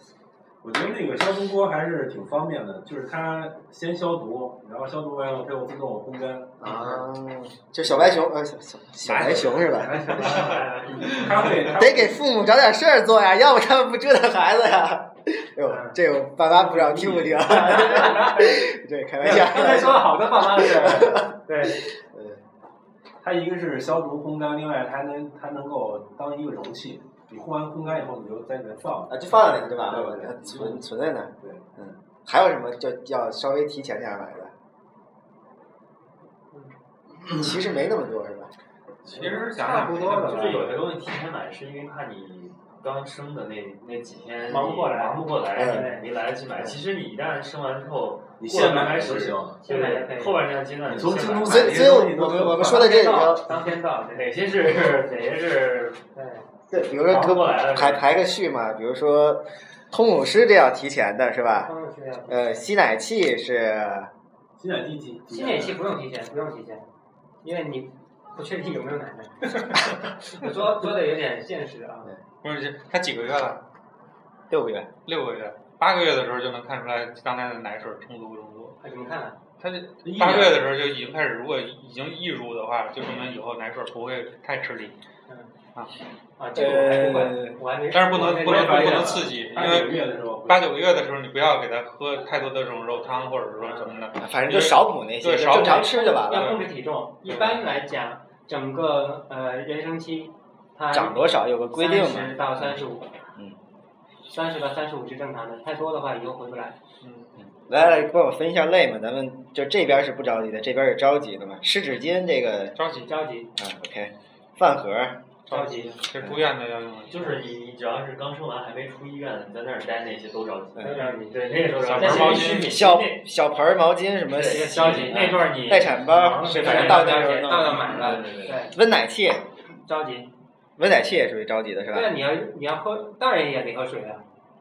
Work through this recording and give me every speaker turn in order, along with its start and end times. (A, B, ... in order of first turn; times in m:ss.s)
0:00.6-0:06.7 A
0:06.6-0:10.3 B
0:07.8-0:08.1 A
0:09.0-0:11.1 C
0:09.5-0:11.7 D
0:09.9-0:10.3 E
0:11.1-0:12.2 A
0:11.7-0:22.4 B
0:15.6-0:16.0 E
0:16.6-0:17.5 A
0:17.4-0:21.8 E
0:23.2-0:30.8 A
0:29.1-0:34.5 B
0:37.3-0:38.5 B
0:39.1-0:40.8 C
0:39.1-0:40.8 E
0:40.0-0:51.8 D
0:44.5-0:46.1 E
0:45.5-0:45.9 B
0:48.4-0:49.6 A
0:49.6-0:50.4 E
0:50.8-0:52.9 A
0:51.4-0:53.4 B
0:52.5-0:54.3 E
0:54.1-0:56.0 D
0:56.1-0:56.4 E
0:56.7-1:01.7 B
0:57.0-0:58.1 D
1:01.6-1:02.7 E
1:02.3-1:04.1 B
1:04.6-1:05.8 A
1:05.3-1:06.8 E
1:07.4-1:12.1 E
1:12.4-1:13.6 C
1:14.5-1:14.9 B
1:15.0-1:18.8 C
1:18.8-1:19.4 E
1:19.6-1:25.0 C
1:20.0-1:20.7 A
1:26.4-1:29.3 E
1:26.5-1:27.6 B
1:27.9-1:36.6 C
1:28.1-1:30.7 A
1:34.2-1:36.6 B
1:35.4-1:43.1 E
1:40.9-1:42.8 B
1:44.3-1:46.8 E
1:47.0-1:47.3 C
1:47.4-1:52.8 B
1:52.8-1:53.1 C
1:53.0-1:53.5 E
1:53.6-1:55.2 B
1:55.5-1:57.3 C
1:55.5-1:56.0 E
1:57.1-2:03.1 D
2:00.8-2:01.0 B
2:00.8-2:03.1 E
2:01.8-2:02.8 C
2:02.5-2:08.2 B
2:04.3-2:08.6 D
2:04.4-2:08.7 E
2:08.7-2:09.4 B
2:09.8-2:10.3 E
2:10.8-2:12.1 B
2:11.9-2:14.2 E